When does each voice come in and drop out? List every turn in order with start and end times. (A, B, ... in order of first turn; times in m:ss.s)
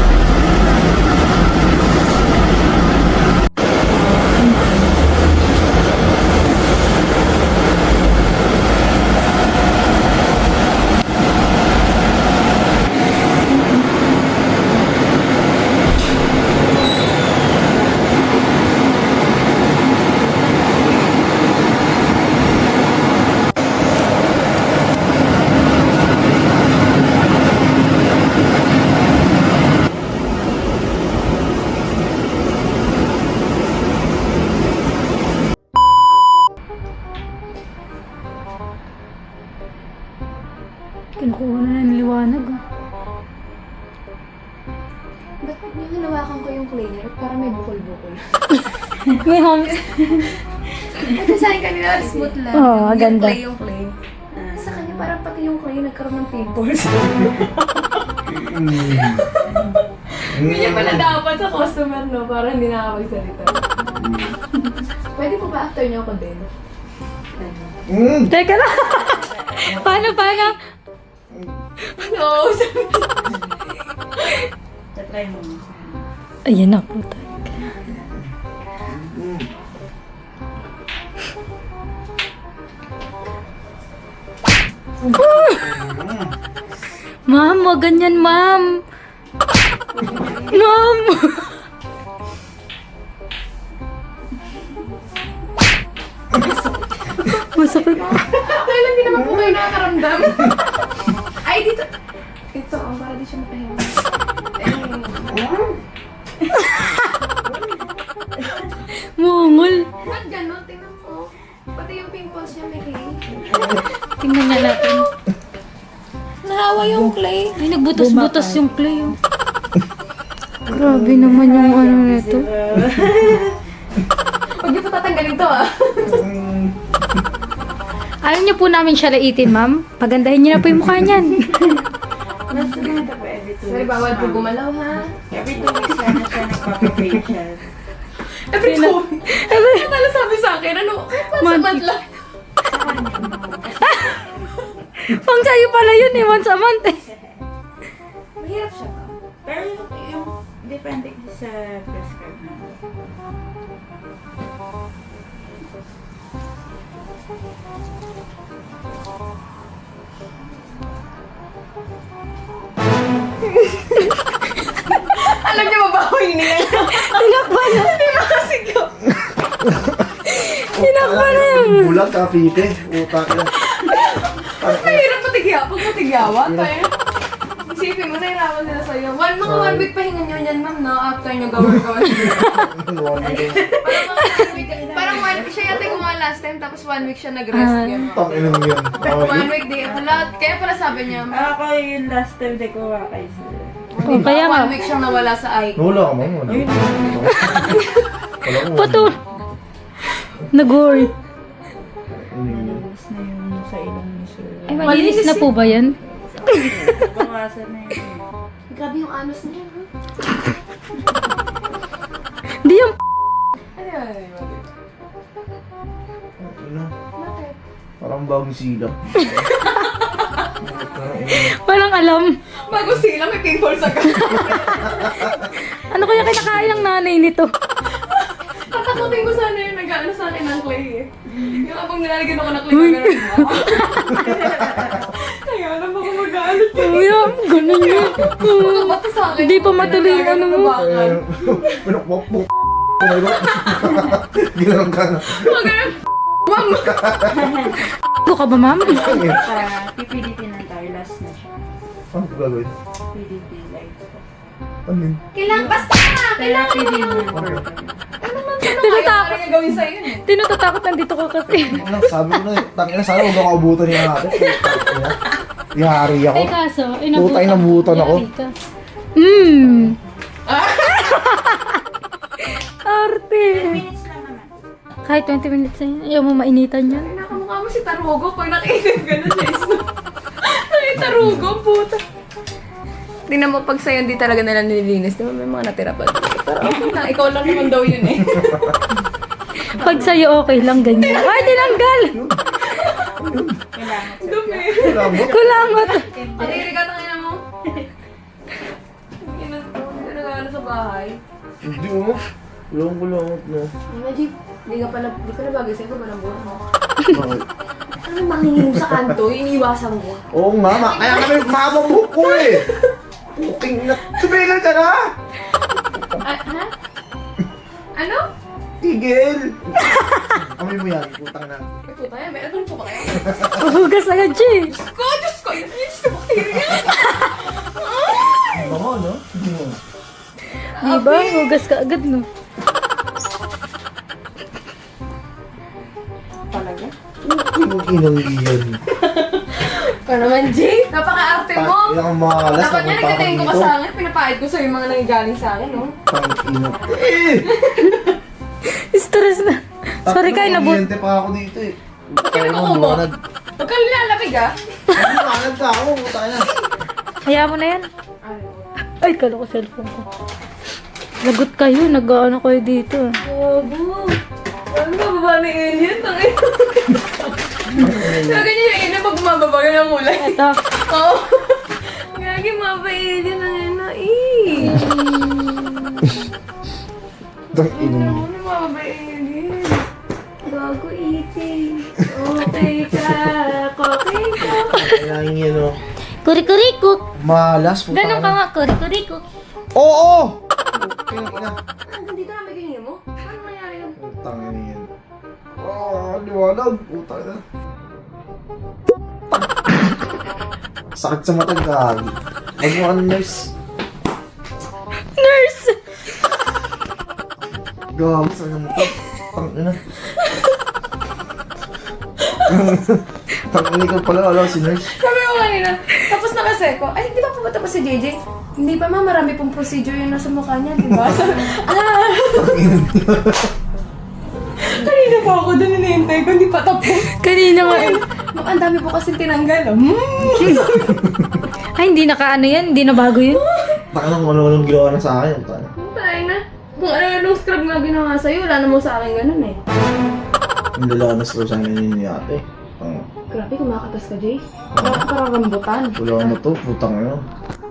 0:03.9-0:05.1 A
0:41.2-0:42.6 B
0:45.4-0:48.3 C
0:49.2-0:49.8 B
0:49.6-0:50.3 C
0:50.0-0:50.3 A
0:51.0-0:53.9 C
0:52.0-0:52.3 A
0:52.5-0:53.4 B
0:54.3-0:55.0 A
0:54.5-0:57.5 C
0:58.2-0:59.2 D
0:58.7-1:03.6 C
0:59.5-0:59.7 A
1:00.3-1:01.2 D
1:03.8-1:04.4 D
1:05.1-1:06.5 C
1:07.4-1:07.8 A
1:07.9-1:08.3 D
1:08.3-1:10.5 B
1:09.0-1:09.9 A
1:11.9-1:13.4 C
1:14.1-1:14.5 C
1:14.9-1:16.1 A
1:16.4-1:17.7 B
1:18.0-1:18.3 D
1:18.9-1:19.5 D
1:25.0-1:26.3 D
1:25.1-1:25.7 B
1:27.3-1:28.8 B
1:30.1-1:30.5 C
1:30.4-1:31.5 B
1:36.4-1:38.1 A
1:37.5-1:38.2 B
1:38.0-1:40.6 C
1:39.1-1:39.6 D
1:41.4-1:41.9 C
1:42.5-1:44.0 C
1:44.6-1:45.3 C
1:45.2-1:45.8 D
1:49.2-1:49.9 B
1:50.0-1:53.8 C
1:53.3-1:53.8 D
1:54.2-1:55.0 B
1:54.5-1:55.1 C
1:56.4-1:57.6 C
1:56.8-1:57.1 D
1:57.6-1:59.2 B
1:57.9-1:58.6 A
2:00.7-2:01.4 D
2:00.7-2:02.5 B
2:01.1-2:03.6 A
2:04.6-2:06.3 C
2:06.0-2:06.8 D
2:08.2-2:11.4 B
2:10.6-2:11.1 D
2:11.4-2:11.8 A
2:12.5-2:14.5 A
2:12.5-2:13.0 C
2:13.6-2:15.1 C
2:15.3-2:17.7 A
2:18.5-2:22.1 C
2:18.6-2:19.9 B
2:21.4-2:21.9 B
2:22.6-2:24.6 A
2:23.8-2:24.2 B
2:25.0-2:27.0 B
2:26.8-2:27.5 A
2:28.4-2:29.2 C
2:29.4-2:32.8 A
2:45.0-2:48.9 C
2:46.6-2:48.0 B
2:49.6-2:50.1 D
2:50.3-2:52.0 B
2:50.7-2:53.5 D
2:53.7-2:56.9 C
2:54.6-2:55.1 D
2:56.2-2:56.7 D
2:57.6-3:02.5 C
2:59.4-2:59.9 D
3:02.2-3:03.7 D
3:03.2-3:05.8 A
3:03.8-3:11.4 C
3:07.5-3:08.0 B
3:08.1-3:09.5 D
3:11.3-3:14.2 A
3:13.9-3:15.8 C
3:14.0-3:14.7 B
3:15.8-3:17.8 D
3:16.4-3:17.8 A
3:17.4-3:18.0 C
3:18.4-3:19.1 D
3:18.5-3:19.2 B
3:20.5-3:21.1 B
3:22.1-3:22.8 D
3:22.4-3:25.5 A
3:24.7-3:25.9 B
3:24.8-3:26.5 C
3:26.4-3:28.3 A
3:28.7-3:29.9 C
3:32.6-3:33.0 B
3:33.8-3:34.7 C
3:36.4-3:36.9 D
3:37.1-3:37.6 C
3:38.0-3:39.5 D
3:39.5-3:40.3 C
3:40.6-3:41.6 D
3:41.2-3:42.4 B
3:42.7-3:45.4 C
3:45.3-3:47.5 B
3:46.0-3:46.9 D
3:48.0-4:01.6 C
3:48.9-3:49.3 D
3:52.7-3:54.2 B
3:53.9-3:55.1 A
3:54.1-3:54.7 D
3:56.6-4:00.8 B
4:00.8-4:05.5 D
4:03.5-4:04.0 C
4:05.3-4:07.0 C
4:06.6-4:07.4 D
4:07.3-4:07.8 A
4:08.2-4:09.2 B
4:08.8-4:11.5 A
4:08.9-4:09.5 D
4:12.1-4:12.7 D
4:13.1-4:14.2 A
4:14.9-4:15.2 D
4:15.3-4:17.3 C
4:16.3-4:18.0 A
4:17.3-4:17.6 D
4:18.2-4:20.2 C
4:18.6-4:22.4 B
4:21.5-4:25.2 D
4:25.7-4:26.5 D
4:26.3-4:28.5 B
4:27.1-4:28.2 D
4:29.2-4:30.0 B
4:30.4-4:31.4 C
4:31.1-4:31.8 B
4:32.4-4:33.8 B
4:33.5-4:34.7 A
4:35.0-4:37.1 B
4:36.9-4:39.8 C
4:40.4-4:42.0 C
4:41.0-4:41.6 D
4:43.3-4:48.8 C
4:48.0-4:48.7 D
4:49.7-4:52.2 B
4:49.8-4:50.1 A
4:50.9-4:51.9 C
4:52.1-4:52.4 D
4:52.5-4:53.1 C
4:53.2-4:53.6 D
4:53.7-4:56.8 A
4:54.2-4:57.4 C
4:54.7-4:55.7 D
4:55.1-4:56.0 B
4:59.2-5:01.2 C
5:01.6-5:03.7 D
5:03.9-5:06.6 C
5:07.1-5:07.5 D
5:08.0-5:11.5 C
5:10.3-5:12.7 D
5:12.2-5:12.7 C
5:13.4-5:15.1 D
5:16.2-5:16.7 C
5:17.9-5:18.2 C
5:18.8-5:21.7 D
5:21.8-5:23.6 C
5:23.2-5:23.6 D
5:23.6-5:24.7 B
5:24.7-5:28.7 C
5:26.8-5:27.1 B
5:28.5-5:29.8 D
5:30.7-5:31.5 C
5:30.8-5:32.3 B
5:36.5-5:36.9 C
5:37.2-5:38.8 D
5:39.2-5:42.0 C
5:41.5-5:43.7 D
5:42.5-5:45.9 C
5:46.1-5:47.5 D
5:47.5-5:48.0 C
5:48.7-5:50.8 B
5:50.0-5:53.2 D
5:52.2-5:53.0 C
5:53.6-5:54.5 C
5:54.9-5:56.5 D
5:57.2-5:57.9 B
5:58.2-5:58.7 C
5:59.0-6:00.0 B
6:01.2-6:03.1 B
6:03.2-6:04.2 C
6:04.7-6:16.2 C
6:07.7-6:08.5 D
6:10.2-6:10.6 B
6:17.5-6:19.8 C
6:17.5-6:18.2 D
6:20.4-6:25.0 C
6:24.5-6:25.8 D
6:26.2-6:27.0 B
6:27.2-6:28.4 D
6:27.9-6:29.2 B
6:29.7-6:31.6 D
6:31.8-6:34.0 C
6:34.0-6:34.9 D
6:35.6-6:37.4 D
6:39.3-6:39.9 D
6:40.9-6:43.5 D
6:45.2-6:45.8 B
6:47.9-6:49.8 D
6:52.5-6:54.9 D
6:54.8-7:02.7 C
7:02.3-7:03.5 D
7:04.6-7:10.9 C
7:07.2-7:08.0 B
7:10.4-7:10.8 B
7:10.4-7:11.3 D
7:11.8-7:13.4 B
7:13.3-7:13.8 C
7:13.9-7:15.7 D
7:15.7-7:19.6 C
7:20.8-7:23.0 D
7:23.3-7:26.4 C
7:24.7-7:25.0 D
7:26.0-7:27.2 D